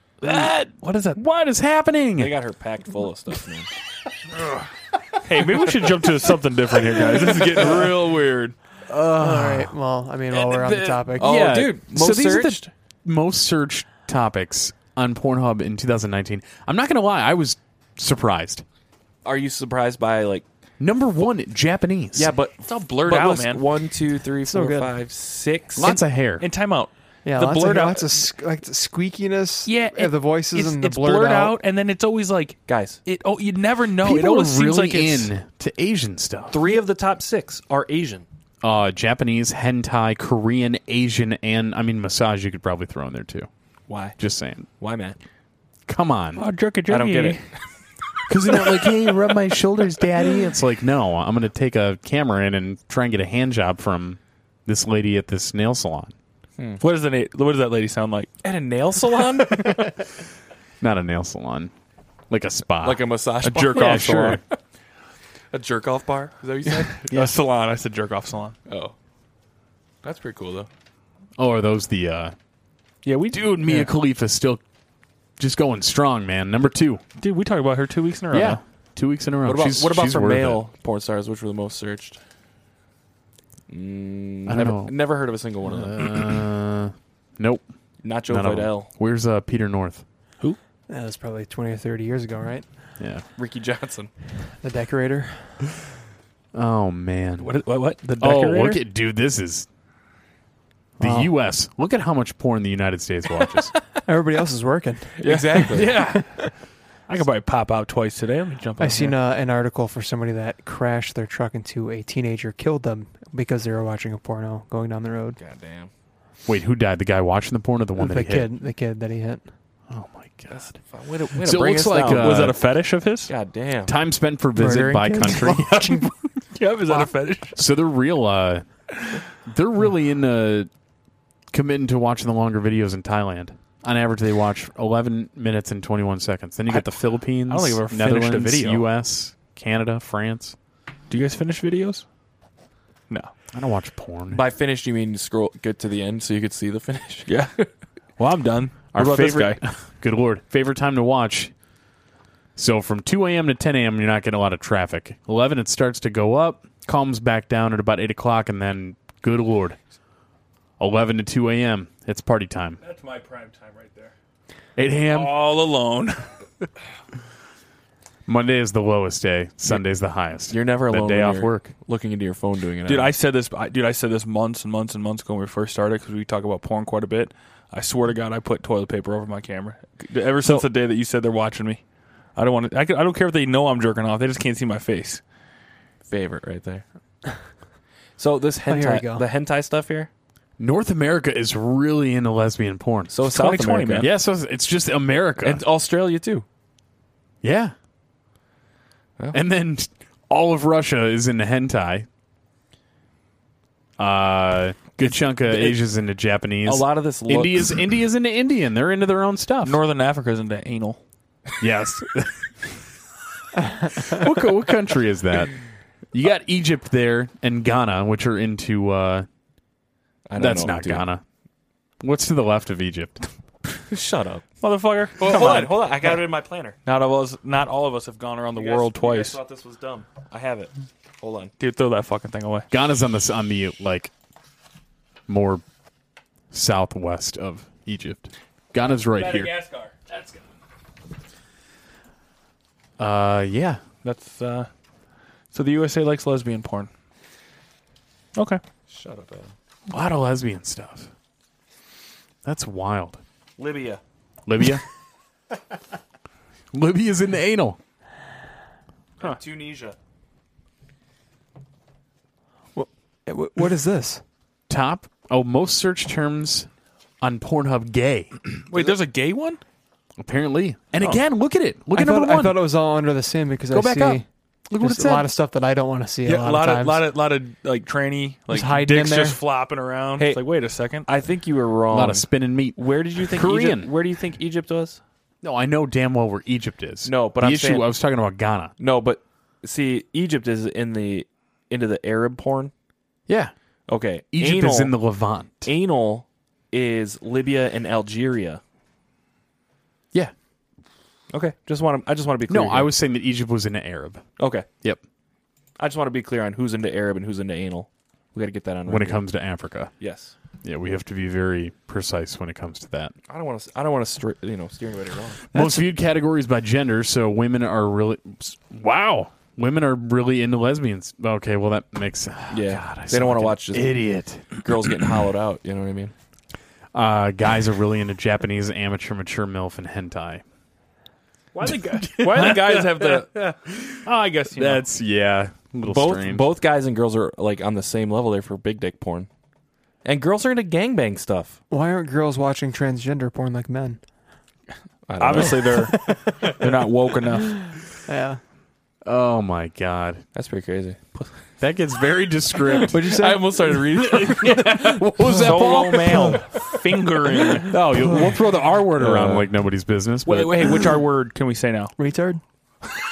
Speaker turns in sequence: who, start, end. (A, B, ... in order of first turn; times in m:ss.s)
0:00.2-0:02.3 A
0:00.2-0:01.2 B
0:02.2-0:03.7 C
0:05.2-0:08.2 B
0:07.2-0:08.6 C
0:08.9-0:09.7 A
0:09.2-0:11.3 D
0:10.5-0:11.0 B
0:11.1-0:18.6 A
0:11.2-0:12.7 C
0:19.2-0:20.4 C
0:20.8-0:22.3 A
0:22.1-0:25.9 C
0:22.6-0:23.6 B
0:24.4-0:24.9 D
0:25.8-0:26.4 A
0:25.8-0:28.3 B
0:27.2-0:31.5 D
0:29.6-0:35.3 B
0:32.7-0:33.0 C
0:34.0-0:36.6 A
0:36.5-0:38.3 C
0:38.6-0:43.5 A
0:43.9-0:44.2 C
0:44.2-0:44.7 A
0:44.8-0:45.2 C
0:45.9-0:46.5 A
0:46.4-0:47.4 B
0:46.9-0:47.4 C
0:48.3-0:56.1 A
0:56.8-0:58.3 B
0:58.4-0:59.9 C
1:00.8-1:01.7 A
1:02.3-1:04.4 A
1:02.8-1:04.4 C
1:03.4-1:04.4 B
1:05.5-1:07.1 C
1:06.8-1:08.6 B
1:08.7-1:08.9 C
1:10.0-1:10.7 C
1:11.4-1:12.3 A
1:13.0-1:13.9 B
1:13.3-1:14.6 A
1:15.4-1:17.0 A
1:17.2-1:18.6 B
1:18.3-1:20.6 A
1:19.4-1:22.2 C
1:23.7-1:26.2 C
1:24.5-1:24.9 A
1:25.6-1:27.6 A
1:28.0-1:28.9 C
1:28.2-1:30.0 A
1:30.9-1:32.7 D
1:33.0-1:33.2 A
1:33.4-1:34.1 C
1:34.6-1:35.6 D
1:36.5-1:37.5 A
1:37.4-1:38.8 B
1:38.2-1:39.6 A
1:41.0-1:43.7 A
1:41.0-1:41.3 D
1:44.0-1:46.5 D
1:45.2-1:45.9 C
1:45.2-1:46.5 B
1:47.1-1:49.2 B
1:48.8-1:55.4 D
1:55.4-1:55.9 C
1:56.4-1:58.5 A
1:58.0-1:59.4 D
1:59.9-2:00.6 A
2:00.5-2:02.5 C
2:01.3-2:02.6 A
2:02.0-2:03.3 B
2:03.3-2:04.0 C
2:03.8-2:06.0 A
2:04.6-2:06.1 D
2:06.5-2:07.6 B
2:07.6-2:08.6 A
2:09.4-2:10.7 A
2:11.5-2:20.6 A
2:17.4-2:18.9 B
2:21.1-2:22.0 B
2:23.5-2:24.4 A
2:24.3-2:27.4 C
2:27.2-2:27.6 B
2:28.2-2:29.6 B
2:28.9-2:31.5 A
2:32.6-2:39.8 A
2:40.8-2:42.8 A
2:42.8-2:44.1 B
2:44.8-2:45.4 A
2:45.1-2:46.3 B
2:48.2-2:51.7 A
2:50.5-2:53.1 C
2:52.8-3:01.8 B
3:02.4-3:05.2 B
3:06.0-3:06.8 C
3:08.2-3:10.1 C
3:08.7-3:09.2 D
3:10.6-3:13.2 A
3:13.1-3:14.1 C
3:13.2-3:14.1 B
3:14.0-3:15.6 A
3:15.4-3:16.4 C
3:17.4-3:17.7 A
3:19.3-3:22.1 A
3:24.0-3:29.8 A
3:25.0-3:25.8 C
3:26.6-3:27.8 C
3:29.6-3:31.0 B
3:31.6-3:32.5 A
3:33.8-3:35.5 A
3:36.1-3:39.3 A
3:40.3-3:41.1 C
3:40.4-3:41.2 A
3:42.0-3:43.2 A
3:43.8-3:44.4 C
3:44.6-3:46.2 B
3:45.2-3:46.8 C
3:46.8-3:49.4 B
3:48.5-3:51.5 C
3:51.6-3:52.7 B
3:52.7-3:54.1 A
3:55.3-3:55.6 A
3:56.5-3:59.5 A
3:59.1-4:00.4 B
4:03.0-4:03.8 A
4:04.0-4:04.7 B
4:05.5-4:06.9 B
4:08.4-4:08.6 B
4:08.9-4:09.5 C
4:09.9-4:11.1 A
4:12.4-4:13.2 A
4:13.6-4:14.0 C
4:14.4-4:14.8 A
4:16.7-4:17.8 A
4:19.2-4:20.0 C
4:22.7-4:24.2 D
4:24.7-4:26.7 A
4:27.2-4:28.4 A
4:28.6-4:29.6 B
4:30.2-4:32.6 A
4:31.9-4:34.2 D
4:33.7-4:35.3 A
4:34.8-4:37.0 D
4:36.2-4:41.1 B
4:38.5-4:39.4 D
4:40.2-4:40.4 C
4:41.0-4:45.0 C
4:41.9-4:43.9 A
4:45.4-4:48.7 A
4:47.0-4:47.9 C
4:48.8-4:52.7 C
4:53.3-4:53.5 A
4:53.9-4:54.9 C
4:54.3-4:55.7 A
4:55.6-4:58.6 C
5:01.3-5:02.9 C
5:02.5-5:04.2 A
5:04.4-5:04.7 C
5:05.8-5:09.2 C
5:08.8-5:09.9 A
5:10.0-5:10.3 C
5:10.6-5:13.1 A
5:13.3-5:15.4 C
5:15.5-5:24.9 A
5:22.5-5:24.0 C
5:24.5-5:26.1 C
5:26.9-5:30.4 A
5:31.5-5:33.5 B
5:31.6-5:34.0 A
5:34.0-5:34.8 B
5:34.5-5:36.5 A
5:35.8-5:39.3 C
5:40.0-5:41.6 C
5:41.7-5:44.0 D
5:45.1-5:45.9 C
5:45.2-5:47.6 B
5:45.9-5:46.5 D
5:47.6-5:48.4 D
5:49.0-5:50.2 A
5:50.3-5:51.3 C
5:51.6-5:56.4 A
5:52.8-5:54.8 C
5:53.0-5:53.4 D
5:54.1-5:57.8 B
5:55.6-5:56.3 C
5:57.6-6:00.8 A
5:58.0-5:58.2 C
5:59.0-5:59.4 C
6:00.2-6:01.9 B
6:02.0-6:02.4 D